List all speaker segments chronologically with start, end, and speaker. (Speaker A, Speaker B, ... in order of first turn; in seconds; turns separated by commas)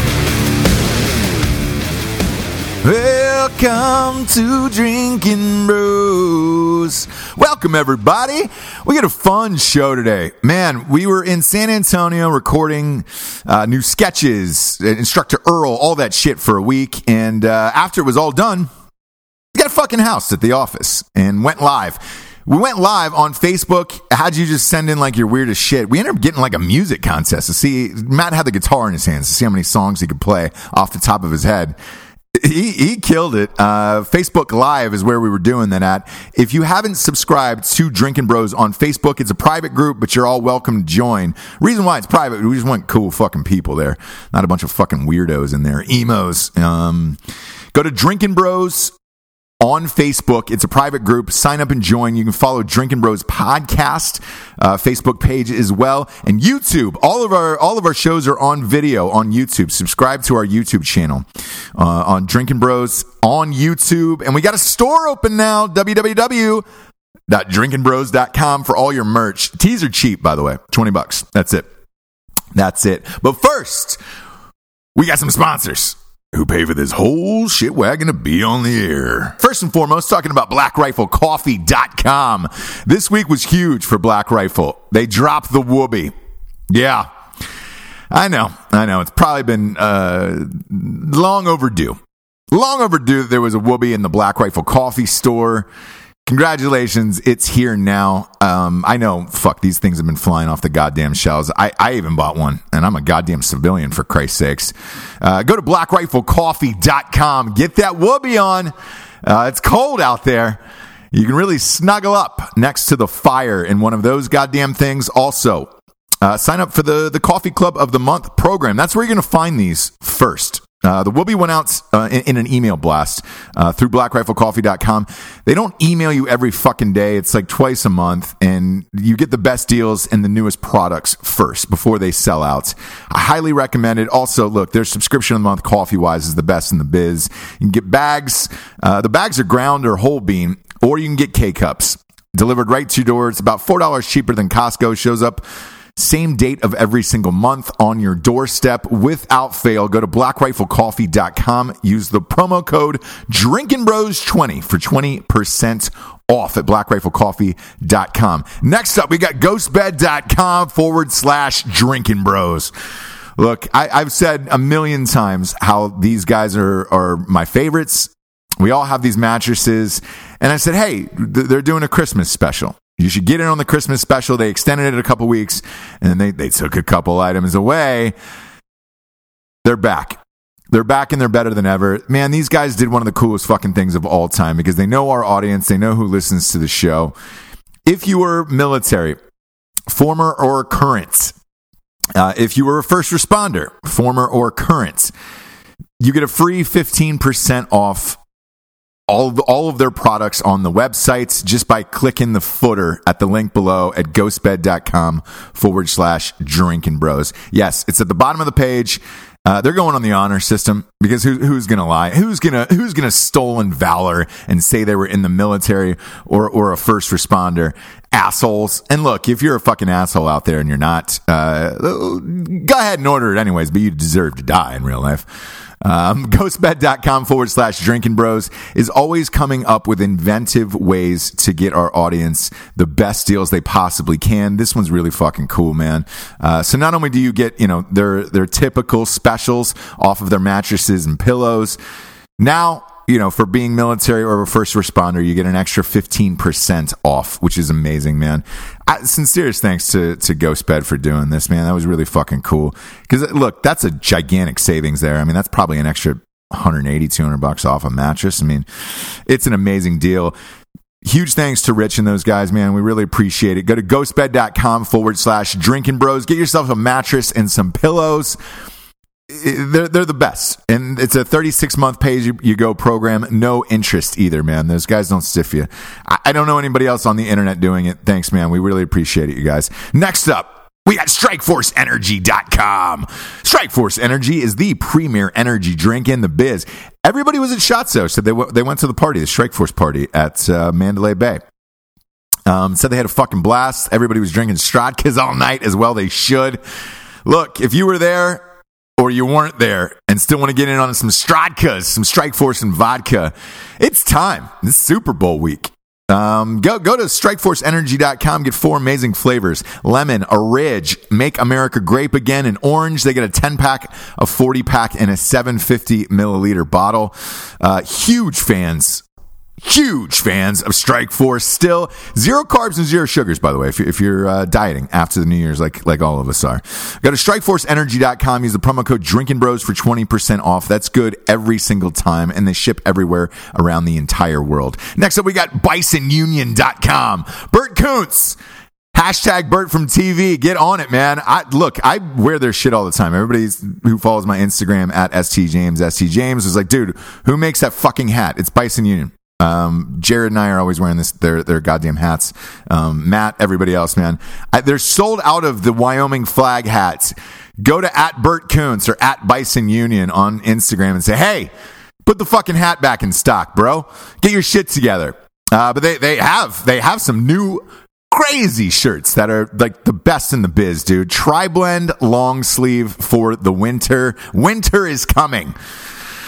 Speaker A: 2.8-18.7, Speaker A: 19.5-31.8, Speaker A: 32.4-47.2, Speaker A: 47.7-48.9, Speaker A: 49.6-66.7, Speaker A: 67.3-71.7, Speaker A: 72.5-74.0, Speaker A: 75.0-86.1, Speaker A: 86.7-87.1, Speaker A: 88.1-92.0, Speaker A: 92.5-95.7, Speaker A: 96.3-108.7, Speaker A: 109.2-110.6, Speaker A: 111.1-115.7, Speaker A: 116.2-145.4, Speaker A: 146.0-162.7, Speaker A: 163.4-178.2, Speaker A: 179.6-180.2, Speaker A: 180.7-187.1, Speaker A: 187.9-189.2, Speaker A: 189.9-191.3, Speaker A: 192.2-195.1, Speaker A: 196.0-198.2, Speaker A: 199.1-225.3, Speaker A: 225.8-241.8, Speaker A: 242.4-260.3, Speaker A: 261.0-268.4, Speaker A: 269.3-291.4, Speaker A: 292.5-296.6, Speaker A: 297.2-298.4, Speaker A: 299.0-319.0, Speaker A: 319.6-338.4, Speaker A: 338.9-361.5, Speaker A: 362.1-375.6